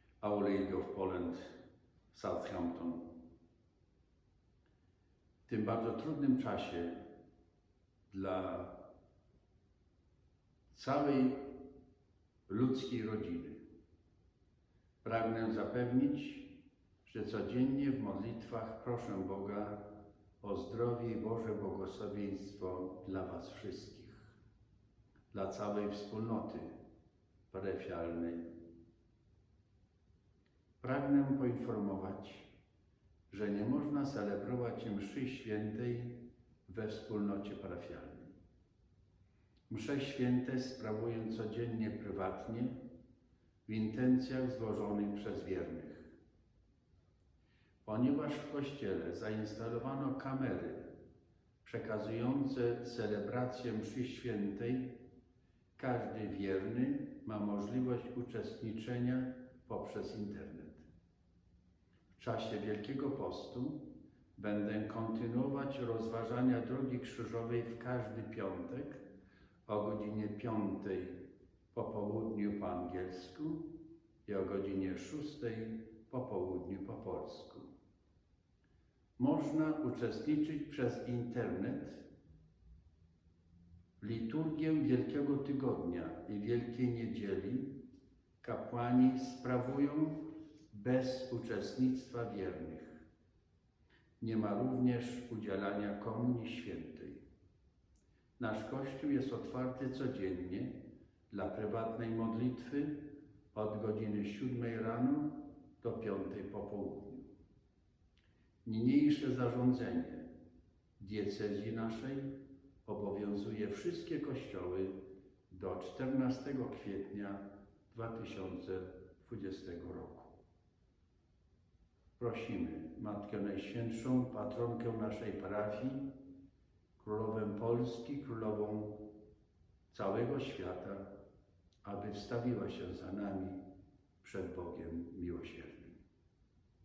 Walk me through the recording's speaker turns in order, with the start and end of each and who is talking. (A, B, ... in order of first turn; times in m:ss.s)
0:00.2-0:01.5 A
0:02.1-0:03.1 A
0:05.5-0:07.0 A
0:08.1-0:08.9 A
0:10.7-0:11.6 A
0:12.5-0:13.6 A
0:15.0-0:24.3 A
0:25.3-0:26.7 A
0:27.5-0:28.6 A
0:30.8-0:32.5 A
0:33.3-0:38.3 A
0:39.7-0:42.8 A
0:43.6-0:46.1 A
0:47.8-0:51.0 A
0:51.6-0:55.0 A
0:55.8-1:00.8 A
1:02.2-1:09.0 A
1:09.6-1:17.7 A
1:19.2-1:22.1 A
1:24.0-1:27.8 A
1:28.4-1:33.0 A
1:34.2-1:37.2 A
1:38.4-1:47.3 A
1:48.6-1:50.3 A
1:51.0-2:00.3 A
2:02.2-2:06.2 A
2:07.0-2:09.1 A
2:09.9-2:11.1 A
2:11.8-2:13.6 A
2:14.2-2:16.0 A